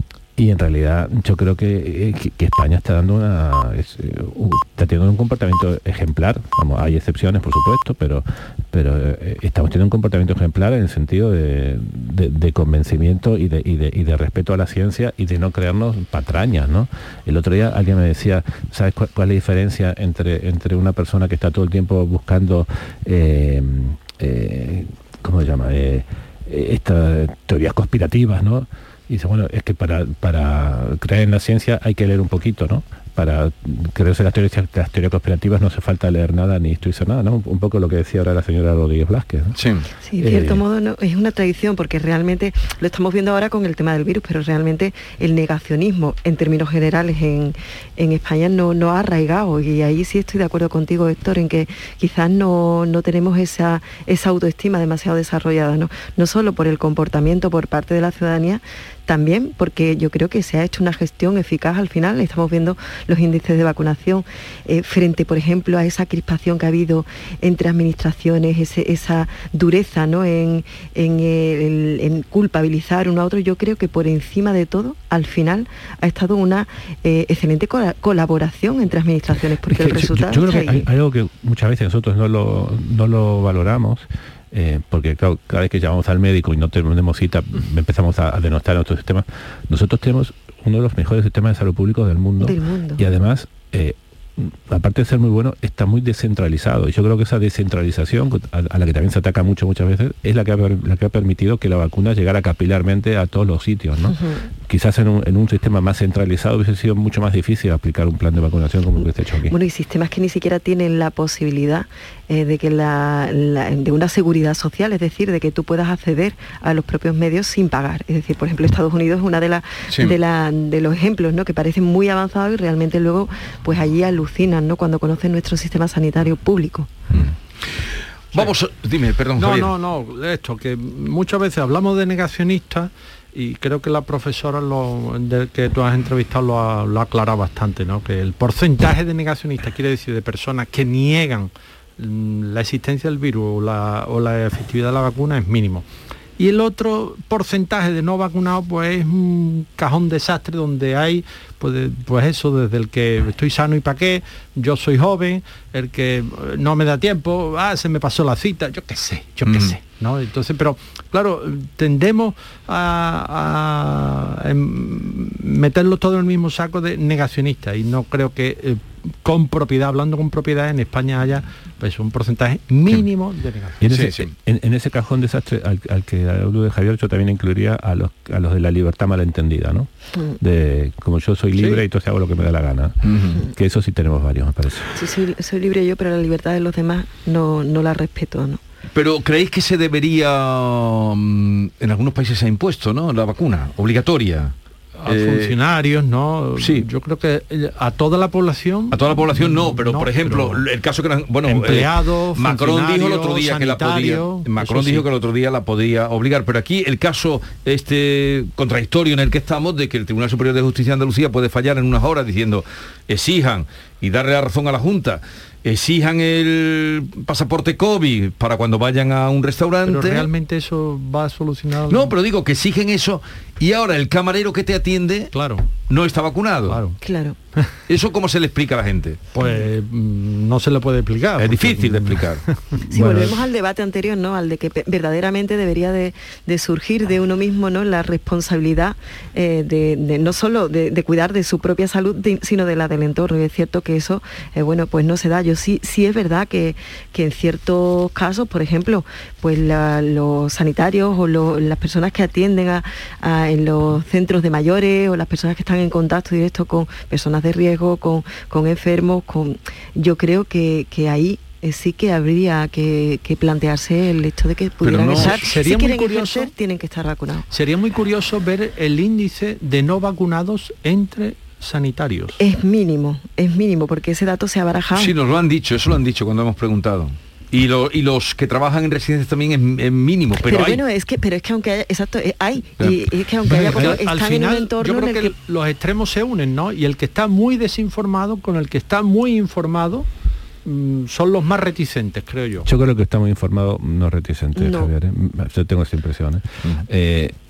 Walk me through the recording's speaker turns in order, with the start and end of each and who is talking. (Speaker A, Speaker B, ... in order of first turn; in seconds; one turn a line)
Speaker A: 0.4-39.6
Speaker B: 39.6-39.9
Speaker C: 40.1-80.9
Speaker A: 40.2-40.6
Speaker A: 79.7-109.6
Speaker C: 92.4-93.0
Speaker C: 104.1-104.4
Speaker C: 109.5-126.9
Speaker B: 127.1-127.7
Speaker B: 128.3-129.7
Speaker D: 129.4-145.9
Speaker D: 146.4-173.8
Speaker B: 159.5-159.8
Speaker A: 173.8-184.9
Speaker B: 173.8-174.3
Speaker D: 181.6-181.8
Speaker B: 183.0-183.4
Speaker C: 185.0-188.6
Speaker B: 188.9-194.5
Speaker D: 195.0-200.6
Speaker B: 195.1-195.5
Speaker B: 196.6-196.8
Speaker B: 198.9-220.3
Speaker D: 201.5-205.1
Speaker D: 219.9-222.1
Speaker B: 221.9-225.3
Speaker D: 225.3-225.7
Speaker B: 225.9-226.8
Speaker D: 226.7-227.0
Speaker C: 227.0-227.4
Speaker B: 227.9-229.2
Speaker D: 229.3-232.6
Speaker B: 231.4-232.4
Speaker C: 232.9-267.5
Speaker A: 233.0-233.3
Speaker B: 264.8-265.5
Speaker D: 265.2-266.5
Speaker D: 267.5-272.4
Speaker C: 272.4-275.1
Speaker B: 274.9-280.8
Speaker C: 280.4-285.4
Speaker D: 283.5-290.1
Speaker D: 290.6-292.7
Speaker A: 292.6-297.4
Speaker C: 294.6-294.9